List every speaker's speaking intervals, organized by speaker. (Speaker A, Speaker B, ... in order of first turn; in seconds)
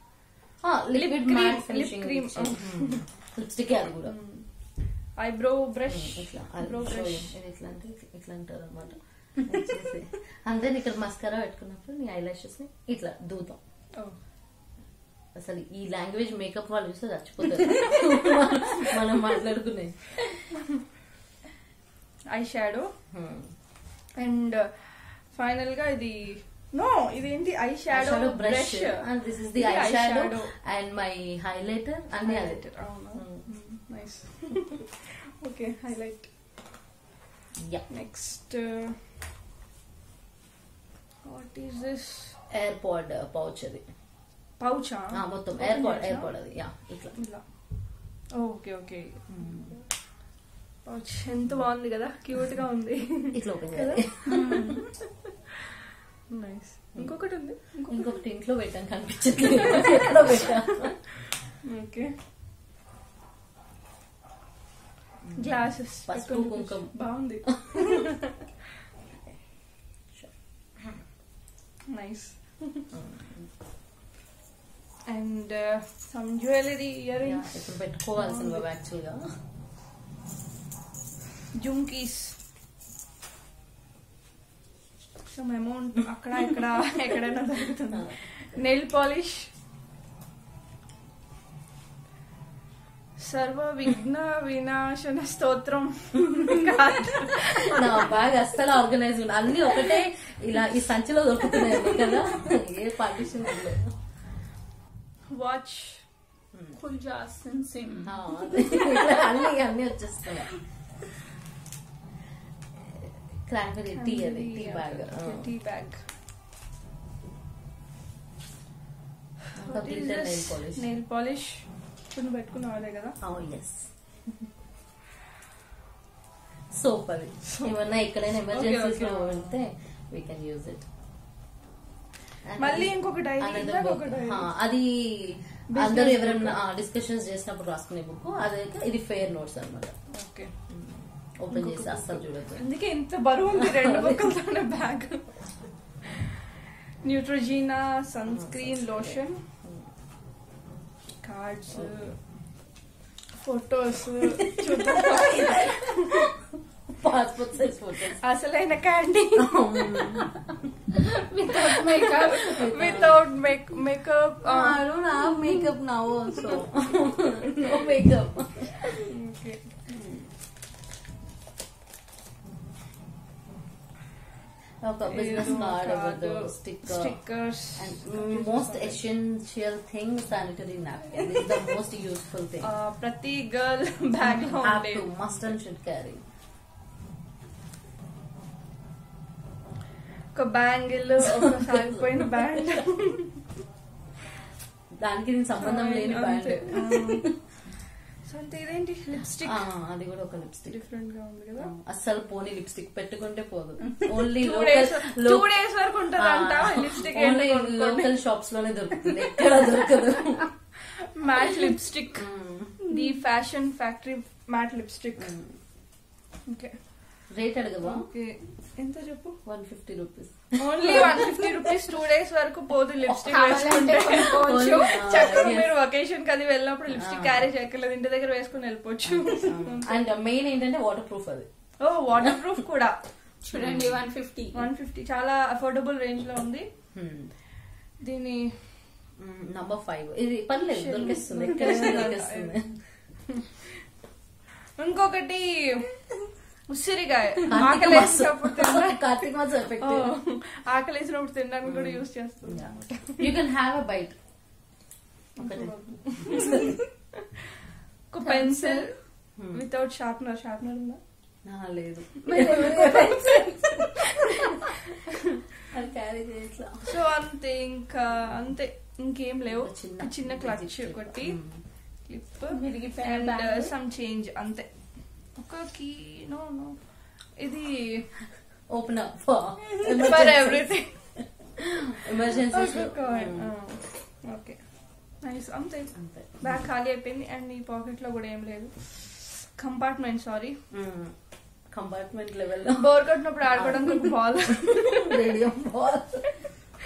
Speaker A: 0.6-4.2, 5.9-13.6, 15.3-20.1, 23.1-23.5, 27.9-33.5, 37.6-37.9, 42.5-43.8, 45.1-47.2, 49.3-49.7, 53.3-54.4, 57.9-61.0, 65.2-67.8, 70.1-71.0, 72.9-73.5, 77.2-79.3, 97.6-104.0, 108.0-110.5, 113.5-115.5, 119.5-120.9, 123.2-123.9, 126.7-130.8, 132.4-139.9, 140.7-142.7, 143.6-144.2, 148.3-149.9, 154.7-156.2, 156.9-158.2, 159.4-160.3, 162.3-163.3, 164.4-168.9, 174.8-182.7, 184.2-186.2, 195.0-197.3, 199.4-200.9, 201.6-205.6, 206.2-210.5, 212.1-212.8, 215.2-215.6, 217.3-218.1, 219.4-221.4, 223.1-223.3, 224.1-225.7, 226.9-227.5, 229.1-231.5, 233.5-234.0, 236.9-237.3, 239.2-242.8, 247.5-250.2, 251.7-254.2, 255.4-256.8, 259.4-259.6, 261.4-263.5, 265.7-267.0, 269.5-271.6, 278.7-281.4, 281.9-283.5, 286.0-286.7, 290.7-296.3
Speaker B: 0.9-3.0, 4.0-7.4, 22.3-22.9, 24.1-30.6, 32.2-36.3, 37.9-39.0, 41.2-42.4, 44.6-50.3, 50.8-54.9, 56.3-58.2, 61.6-62.1, 65.4-68.2, 71.9-72.8, 75.1-78.7, 81.5-82.4, 85.3-89.5, 93.2-98.1, 105.3-106.1, 113.9-116.1, 119.6-123.2, 127.5-127.7, 128.5-129.6, 132.6-134.5, 135.7-136.6, 140.1-140.5, 141.5-145.5, 147.0-149.4, 151.2-152.4, 153.4-156.2, 158.1-160.0, 161.6-164.9, 169.1-170.3, 175.1-179.0, 182.6-185.5, 190.3-193.4, 195.6-197.7, 198.2-199.7, 200.7-201.7, 204.3-208.2, 211.0-215.3, 216.5-217.3, 217.8-219.4, 220.6-230.0, 231.8-233.0, 234.5-236.7, 238.0-238.9, 240.7-243.2, 244.8-245.9, 246.7-253.3, 255.4-256.9, 258.1-261.0, 262.3-263.0, 266.9-271.4, 272.1-278.1, 279.8-281.2, 282.5-290.6, 292.8-295.3
Speaker C: 54.3-54.9, 106.7-108.2, 161.0-162.6, 223.2-225.0, 233.4-234.7, 258.2-258.9, 262.3-263.7, 272.5-273.7